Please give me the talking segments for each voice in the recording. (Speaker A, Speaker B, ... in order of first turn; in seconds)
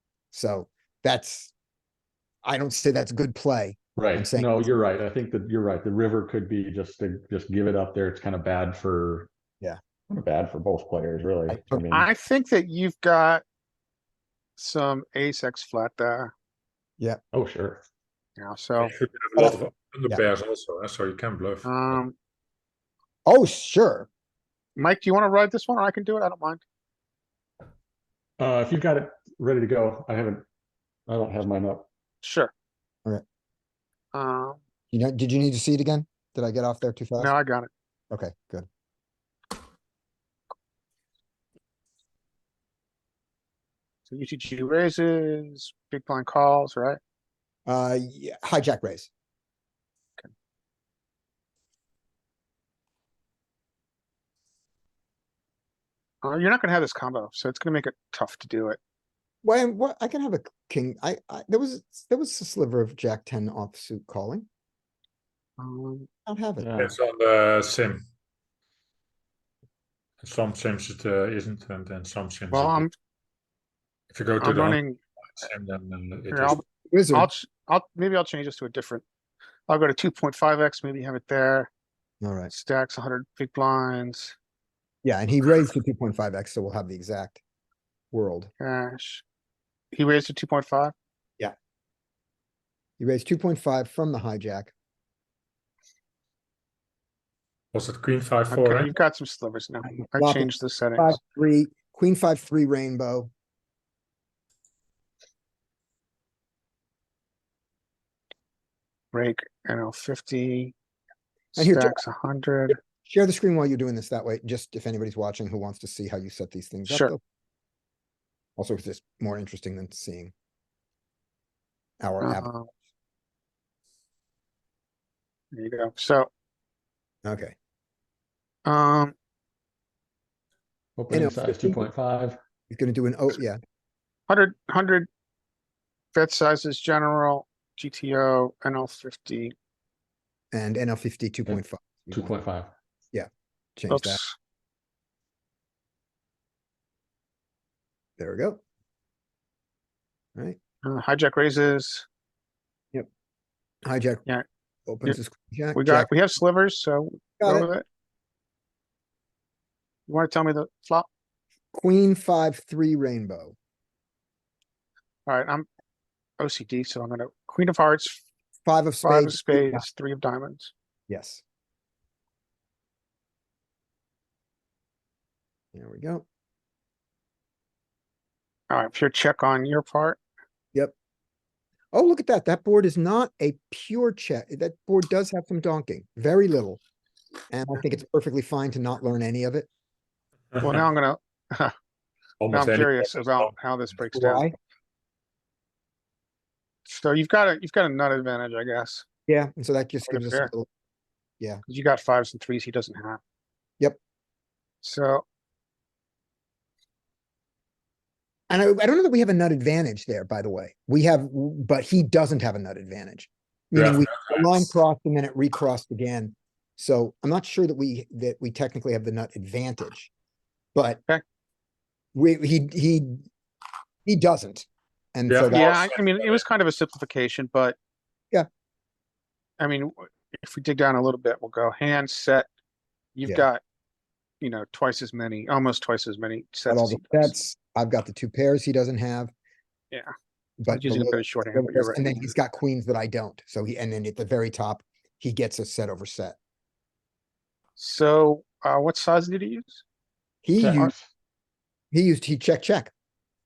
Speaker A: 0.3-1.5, 2.5-4.7, 11.5-11.9, 19.4-20.2, 23.3-24.1, 34.9-37.3, 38.1-38.7, 47.7-49.1, 59.4-64.5, 66.3-66.7, 76.9-77.3, 82.2-82.5, 85.0-87.4, 88.1-88.5, 93.0-94.7, 99.9-103.3, 111.6-112.0, 113.0-117.2, 118.6-120.3, 122.0-122.5, 127.2-127.5, 131.1-131.8, 132.7-133.6, 140.5-142.3, 143.1-144.2, 148.2-148.6, 153.8-154.2, 154.9-156.1, 157.4-157.7, 161.7-163.6, 168.7-169.8, 171.1-171.4, 175.7-176.3, 181.9-186.8, 187.5-189.7, 194.1-194.6, 199.3-200.7, 208.5-220.1, 220.8-221.0, 222.2-223.3, 224.1-225.7, 236.7-239.3, 240.6-246.4, 250.4-250.9, 251.9-252.9
Speaker B: 4.0-9.3, 10.1-12.1, 17.3-17.8, 28.4-30.4, 31.1-31.9, 66.6-67.0, 131.0-132.4, 142.1-142.7, 250.6-251.1
Speaker C: 11.9-13.4, 14.6-16.3, 18.4-18.9, 21.6-22.1, 24.8-26.6, 32.2-32.5, 34.1-34.6, 37.2-37.7, 44.1-47.0, 56.2-58.8, 65.6-66.1, 72.5-72.9, 74.4-75.0, 76.3-79.0, 79.7-81.7, 82.5-84.3, 88.6-89.2, 89.9-90.9, 98.5-101.2, 109.1-110.7, 111.5-112.8, 116.9-117.1, 122.2-122.7, 125.5-126.3, 128.7-129.1, 134.3-135.1, 136.1-139.5, 143.9-144.4, 150.8-152.1, 155.8-157.8, 160.1-161.1, 165.3-165.7, 166.4-168.2, 169.0-170.7, 178.7-180.2, 190.6-191.7, 192.5-194.5, 196.9-199.1, 200.1-200.5, 201.7-203.2, 204.8-205.2, 225.5-227.8, 229.6-232.5, 233.2-233.6, 234.4-237.3, 240.7-242.2, 247.8-249.8
Speaker D: 18.8-22.0, 66.8-68.0, 70.2-72.9, 74.1-74.8, 75.4-76.6, 97.7-98.9, 190.5-190.8, 192.4-193.5, 213.7-214.7, 225.3-226.4